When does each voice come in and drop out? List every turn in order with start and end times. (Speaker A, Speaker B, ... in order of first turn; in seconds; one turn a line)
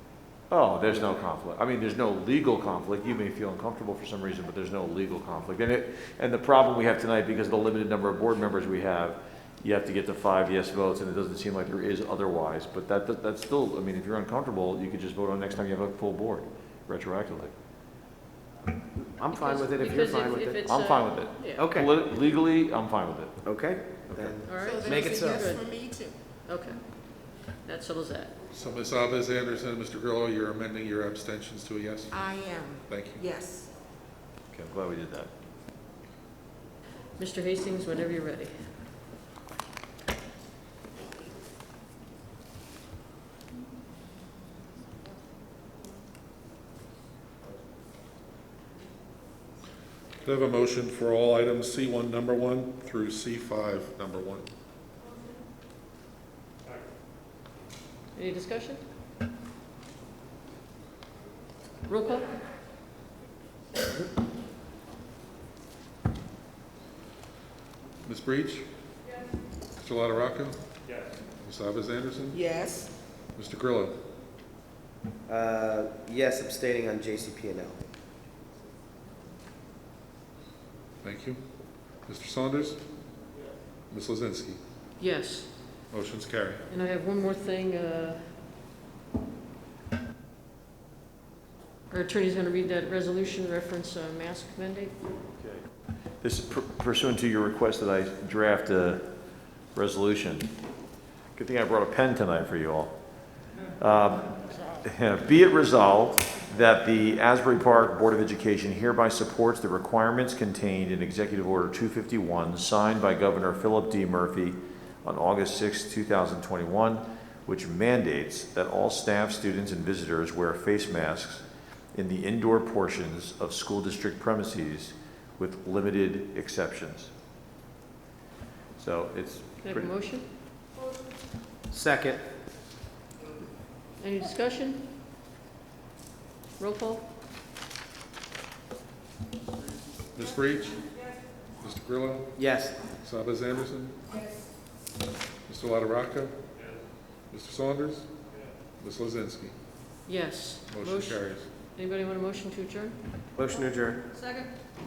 Speaker A: 0.5-17.5
Speaker B: 18.9-20.6
Speaker C: 19.3-21.7
Speaker A: 20.6-23.4
Speaker B: 21.6-21.9
Speaker B: 23.4-25.4
Speaker A: 24.1-24.4
Speaker C: 24.4-25.7
Speaker D: 24.6-26.1
Speaker C: 26.4-26.8
Speaker C: 27.6-28.3
Speaker E: 28.5-32.2
Speaker D: 32.1-33.7
Speaker E: 32.9-33.2
Speaker A: 34.5-35.3
Speaker C: 37.2-38.5
Speaker E: 50.2-54.5
Speaker C: 58.1-58.8
Speaker C: 61.9-62.3
Speaker E: 68.0-68.6
Speaker E: 69.8-70.6
Speaker E: 71.3-72.4
Speaker D: 72.3-72.9
Speaker E: 73.3-74.0
Speaker B: 75.3-77.8
Speaker E: 81.0-81.4
Speaker E: 82.1-82.8
Speaker E: 83.9-84.6
Speaker C: 85.0-85.5
Speaker E: 85.9-86.6
Speaker C: 86.7-88.2
Speaker C: 91.9-94.9
Speaker A: 96.2-99.0
Speaker A: 99.7-100.5
Speaker A: 101.3-102.9
Speaker A: 103.8-127.1
Speaker A: 128.8-129.9
Speaker C: 129.6-130.2
Speaker B: 131.7-132.2
Speaker C: 134.0-134.8
Speaker C: 136.6-137.0
Speaker E: 140.1-140.9
Speaker E: 141.6-142.3
Speaker B: 142.4-142.7
Speaker E: 143.0-143.9
Speaker D: 144.1-144.4
Speaker E: 145.5-146.3
Speaker E: 147.3-148.1
Speaker E: 148.8-149.5
Speaker C: 150.1-151.2
Speaker E: 150.7-151.5
Speaker C: 151.7-152.9
Speaker B: 153.3-154.0